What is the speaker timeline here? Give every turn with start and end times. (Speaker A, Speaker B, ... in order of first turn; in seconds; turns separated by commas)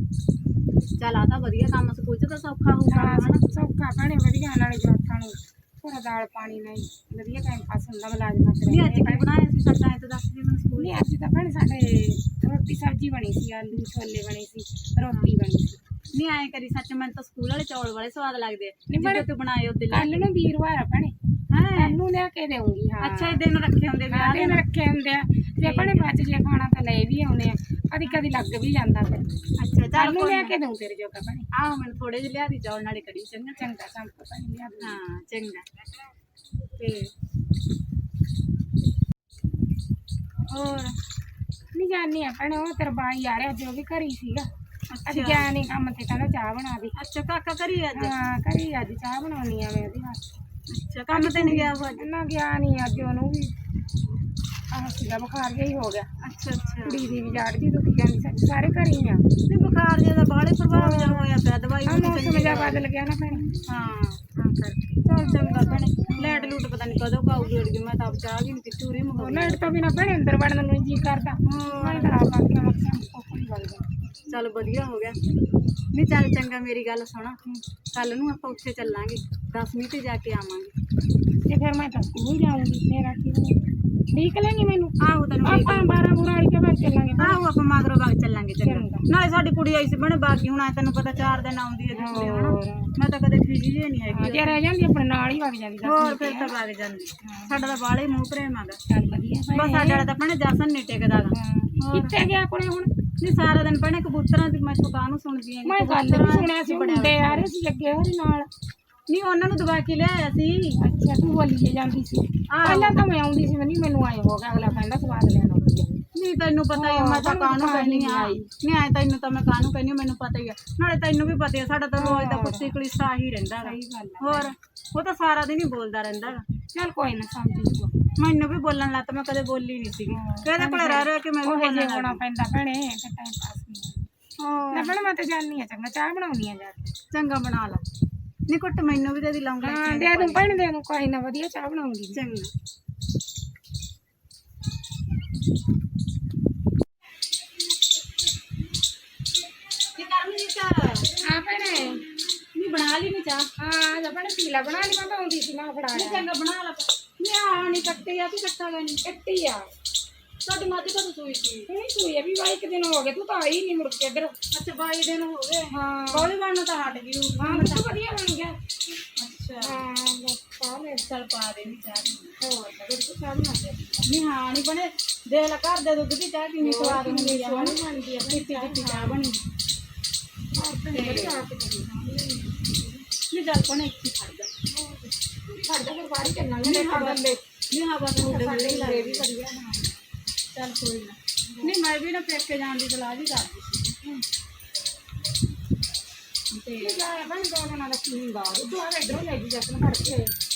Speaker A: 1.0-3.4, Speaker B: 2.9-9.3, Speaker A: 8.7-11.0, Speaker B: 10.8-15.8, Speaker A: 16.1-20.3, Speaker B: 18.9-19.3, Speaker B: 19.9-21.1, Speaker A: 21.5-21.9, Speaker B: 21.8-23.4, Speaker A: 23.0-24.6, Speaker B: 24.1-29.4, Speaker A: 25.6-26.1, Speaker A: 29.6-30.5, Speaker B: 29.9-31.5, Speaker A: 31.5-33.6, Speaker B: 33.6-35.0, Speaker A: 34.8-35.6, Speaker A: 36.8-37.1, Speaker A: 40.5-40.9, Speaker B: 41.7-44.5, Speaker A: 44.9-45.5, Speaker B: 45.0-46.9, Speaker A: 47.0-48.1, Speaker B: 47.9-50.3, Speaker A: 50.7-52.0, Speaker B: 51.1-53.5, Speaker B: 54.7-56.1, Speaker A: 56.2-57.1, Speaker B: 56.8-59.2, Speaker A: 59.5-62.8, Speaker B: 60.7-61.3, Speaker B: 61.9-63.5, Speaker A: 63.7-69.7, Speaker B: 65.1-66.6, Speaker B: 69.2-73.9, Speaker A: 71.4-72.1, Speaker A: 74.3-75.2, Speaker A: 75.9-77.4, Speaker A: 77.9-80.7, Speaker B: 81.5-83.6, Speaker B: 84.1-87.5, Speaker A: 85.0-86.0, Speaker A: 87.2-94.6, Speaker B: 88.6-89.0, Speaker B: 91.9-92.9, Speaker B: 94.1-96.5, Speaker A: 95.8-98.8, Speaker B: 97.2-97.6, Speaker B: 98.9-100.1, Speaker A: 99.5-102.1, Speaker B: 101.3-102.9, Speaker A: 103.2-107.5, Speaker B: 105.6-108.5, Speaker A: 109.1-110.8, Speaker B: 110.8-116.0, Speaker A: 112.5-113.0, Speaker A: 116.1-126.4, Speaker B: 116.7-118.5, Speaker B: 122.0-122.8, Speaker B: 123.6-124.5, Speaker B: 126.7-127.9, Speaker A: 128.2-132.2, Speaker B: 130.1-134.1, Speaker A: 134.4-134.9, Speaker B: 134.7-136.9, Speaker A: 137.1-137.8, Speaker A: 138.5-140.6, Speaker B: 139.6-142.2, Speaker A: 142.1-142.5, Speaker A: 150.0-151.1, Speaker B: 151.2-152.0, Speaker A: 152.6-153.5, Speaker B: 153.6-156.3, Speaker A: 155.9-159.0, Speaker B: 159.0-159.7, Speaker A: 160.4-161.7, Speaker B: 161.7-164.3, Speaker A: 164.5-167.9, Speaker B: 165.7-166.3, Speaker B: 167.4-168.6, Speaker A: 169.2-169.8, Speaker B: 169.6-171.1, Speaker A: 171.1-172.3, Speaker B: 172.4-174.1, Speaker A: 174.1-179.4, Speaker B: 176.6-179.3, Speaker B: 180.6-183.1, Speaker A: 180.9-181.4, Speaker A: 183.3-184.5, Speaker B: 184.7-187.4, Speaker A: 186.6-189.3, Speaker B: 188.2-190.0, Speaker A: 190.5-193.9, Speaker B: 191.4-191.8, Speaker A: 196.5-197.0, Speaker B: 196.8-200.3